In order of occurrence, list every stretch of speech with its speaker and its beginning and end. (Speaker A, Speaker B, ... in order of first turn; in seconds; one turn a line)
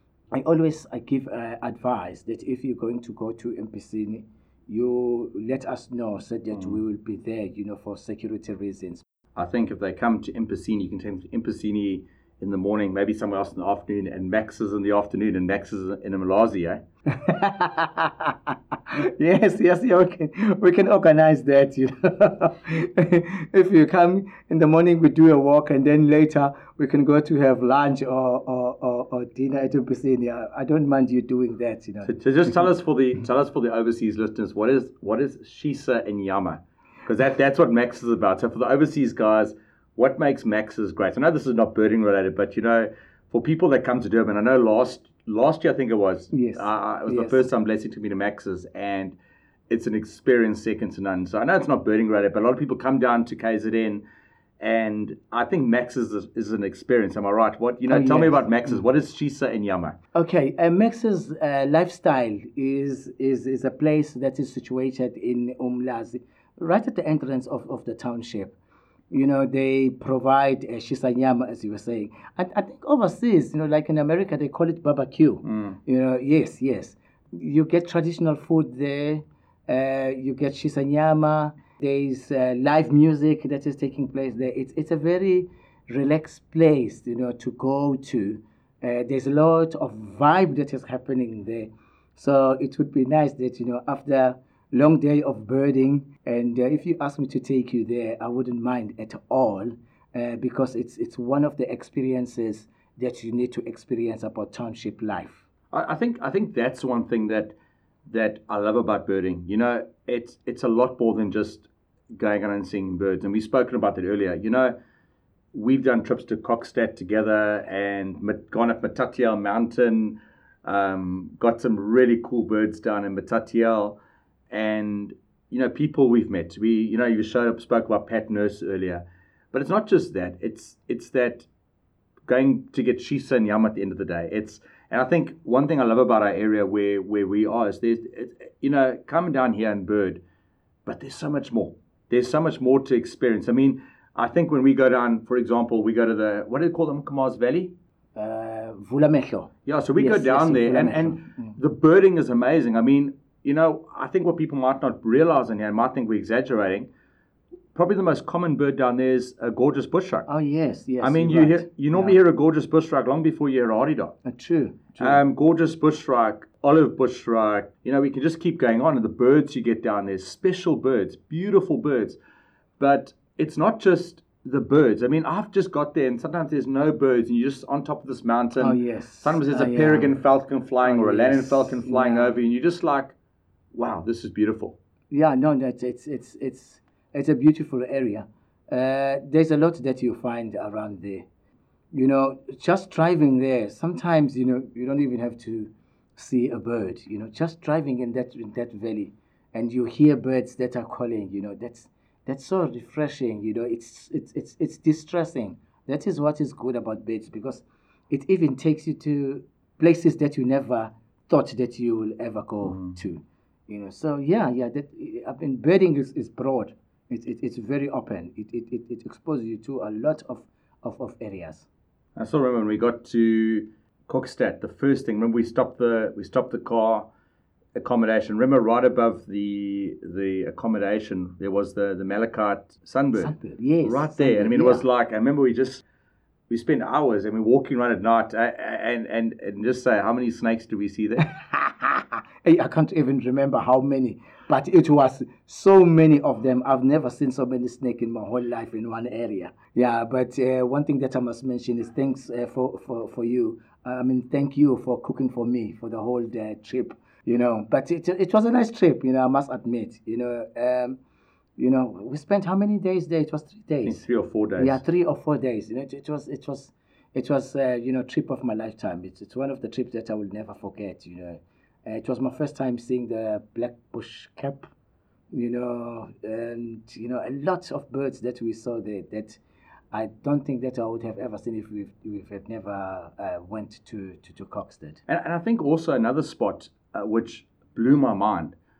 Speaker A: 0.3-9.0
Speaker B: 9.3-16.8
Speaker A: 17.1-32.7
Speaker B: 32.0-49.1
Speaker A: 46.3-47.4
Speaker B: 49.7-54.0
Speaker B: 54.6-60.0
Speaker A: 57.9-58.8
Speaker A: 60.1-68.5
Speaker A: 69.1-105.4
Speaker B: 75.4-75.8
Speaker B: 105.7-107.5
Speaker B: 108.1-114.7
Speaker B: 115.5-124.0
Speaker B: 124.5-131.5
Speaker B: 132.2-140.2
Speaker B: 140.8-147.7
Speaker A: 148.2-151.6
Speaker B: 149.7-156.9
Speaker B: 157.7-160.3
Speaker A: 160.3-162.2
Speaker B: 161.0-164.2
Speaker A: 164.2-165.2
Speaker B: 165.0-172.2
Speaker B: 172.8-183.1
Speaker A: 178.6-180.1
Speaker A: 180.8-182.4
Speaker B: 183.7-184.8
Speaker A: 185.1-191.2
Speaker A: 191.9-221.7
Speaker B: 212.6-212.9
Speaker B: 222.2-227.1
Speaker B: 227.7-235.8
Speaker A: 233.2-234.8
Speaker B: 236.5-241.3
Speaker A: 241.2-261.0
Speaker A: 261.6-264.1
Speaker B: 263.8-264.8
Speaker A: 264.6-274.7
Speaker A: 275.3-279.4
Speaker A: 279.9-285.0
Speaker B: 285.1-288.5